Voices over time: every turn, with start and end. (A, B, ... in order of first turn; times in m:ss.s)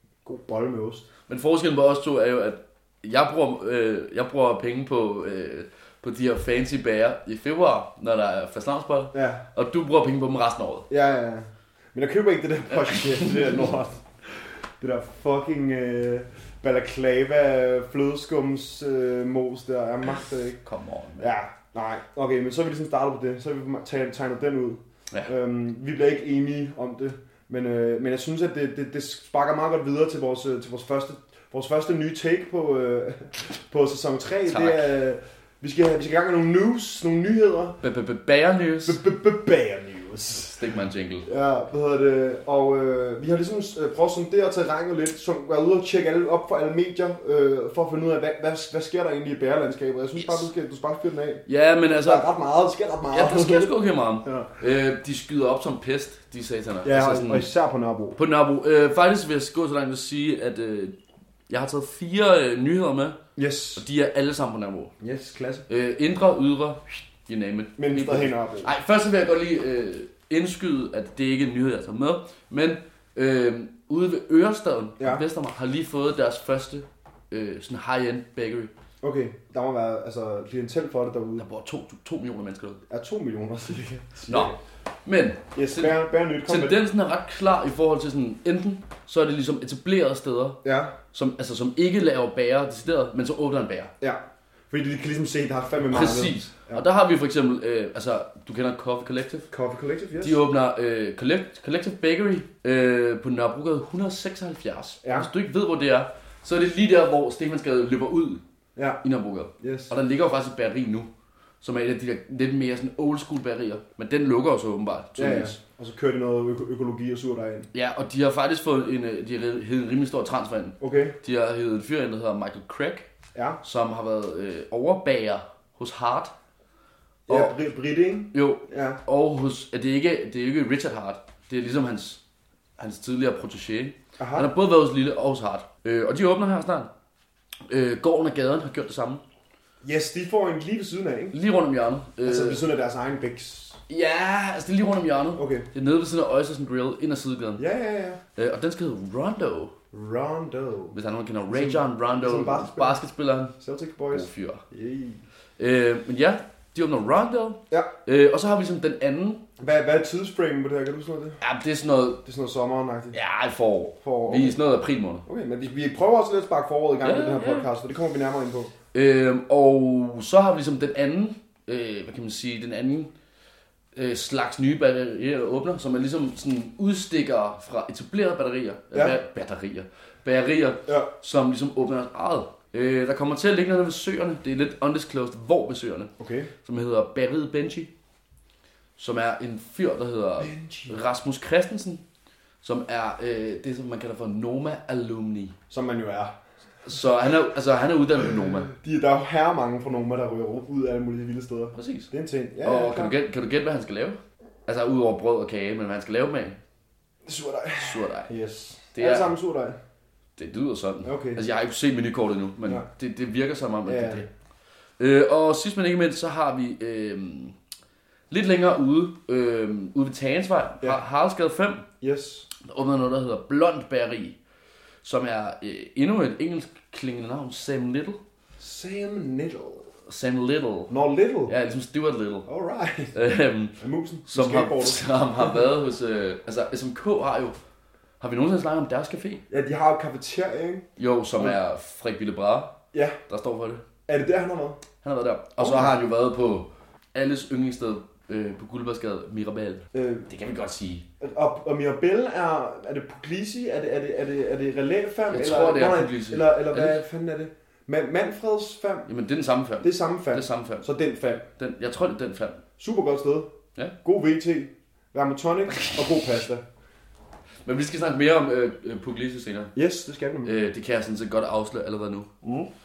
0:00.2-0:01.1 A
0:01.3-0:10.9 B
0:09.1-0:09.4 A
0:10.9-0:20.6 A
0:12.9-0:13.5 B
0:20.6-0:21.3 B
0:21.2-0:37.8 A
0:34.5-0:34.9 B
0:37.8-0:39.0 B
0:38.8-0:40.6 A
0:40.4-0:41.3 B
0:41.2-0:51.4 A
0:50.2-0:50.4 B
0:51.5-0:52.3 B
0:52.0-0:54.5 A
0:53.1-0:57.5 B
0:56.8-0:58.2 A
0:58.2-1:01.0 B
1:01.5-1:03.2 B
1:03.4-1:03.8 A
1:03.8-1:04.9 B
1:05.0-1:05.7 A
1:05.7-1:18.7 B
1:07.8-1:08.7 A
1:15.0-1:15.2 A
1:19.0-1:21.4 A
1:21.4-1:22.8 B
1:22.9-1:24.6 A
1:24.3-1:30.6 B
1:25.6-1:26.8 A
1:30.6-1:31.0 A
1:31.1-1:33.9 B
1:34.0-1:36.8 A
1:35.9-1:39.5 B
1:39.5-1:40.4 A
1:40.2-1:48.4 B
1:45.0-1:45.3 A
1:48.8-1:49.0 A
1:49.0-1:51.1 B
1:49.6-1:49.9 A
1:51.6-1:55.6 B
1:55.2-1:57.7 A
1:57.7-2:03.1 B
2:00.8-2:01.2 A
2:03.3-2:03.6 A
2:03.6-2:06.3 B
2:07.3-2:09.0 A
2:08.3-2:12.2 B
2:12.8-2:16.9 B
2:14.2-2:14.5 A
2:17.7-2:19.2 B
2:19.8-2:21.4 A
2:21.3-2:22.6 B
2:22.2-2:23.8 A
2:23.9-2:27.6 B
2:25.4-2:25.7 A
2:27.6-2:28.2 A
2:28.4-2:29.7 B
2:29.9-2:31.0 A
2:30.9-2:33.6 B
2:31.5-2:33.0 A
2:33.6-2:35.2 A
2:34.1-2:34.6 B
2:35.6-2:39.4 B
2:39.6-2:41.4 A
2:41.4-2:42.2 B
2:42.2-2:43.2 A
2:43.1-2:45.2 B
2:44.0-2:44.6 A
2:45.2-2:48.7 A
2:47.0-2:47.7 B
2:48.9-2:53.1 B
2:53.9-3:06.1 B
2:58.9-2:59.2 A
3:06.2-3:06.5 A
3:06.6-3:07.9 B
3:09.0-3:12.0 B
3:10.4-3:11.0 A
3:12.6-3:15.6 B
3:15.7-3:16.4 A
3:16.8-3:18.7 B
3:18.2-3:23.2 A
3:21.7-3:22.1 B
3:22.6-3:26.6 B
3:27.2-3:29.8 A
3:27.8-3:28.3 B
3:28.9-3:29.3 B
3:30.4-3:34.3 B
3:31.0-3:31.4 A
3:33.8-3:34.2 A
3:35.0-3:37.6 B
3:38.3-3:41.9 B
3:42.0-3:42.5 A
3:42.6-3:44.4 B
3:45.0-3:48.2 B
3:48.6-3:49.9 A
3:50.1-3:50.9 B
3:50.9-3:51.5 A
3:51.5-3:52.5 B
3:52.4-3:53.2 A
3:53.1-3:57.6 B
3:53.8-3:55.6 A
3:58.2-3:59.4 B
3:59.5-4:01.6 A
4:01.0-4:03.8 B
4:02.9-4:03.2 A
4:04.1-4:04.8 A
4:05.0-4:11.0 B
4:05.6-4:05.9 A
4:09.9-4:10.3 A
4:11.2-4:19.1 A
4:15.3-4:17.0 B
4:19.1-4:20.9 B
4:19.8-4:21.5 A
4:21.6-4:22.6 B
4:22.8-4:26.6 A
4:27.6-4:29.7 B
4:29.7-4:30.5 A
4:30.4-4:32.3 B
4:32.4-4:32.7 A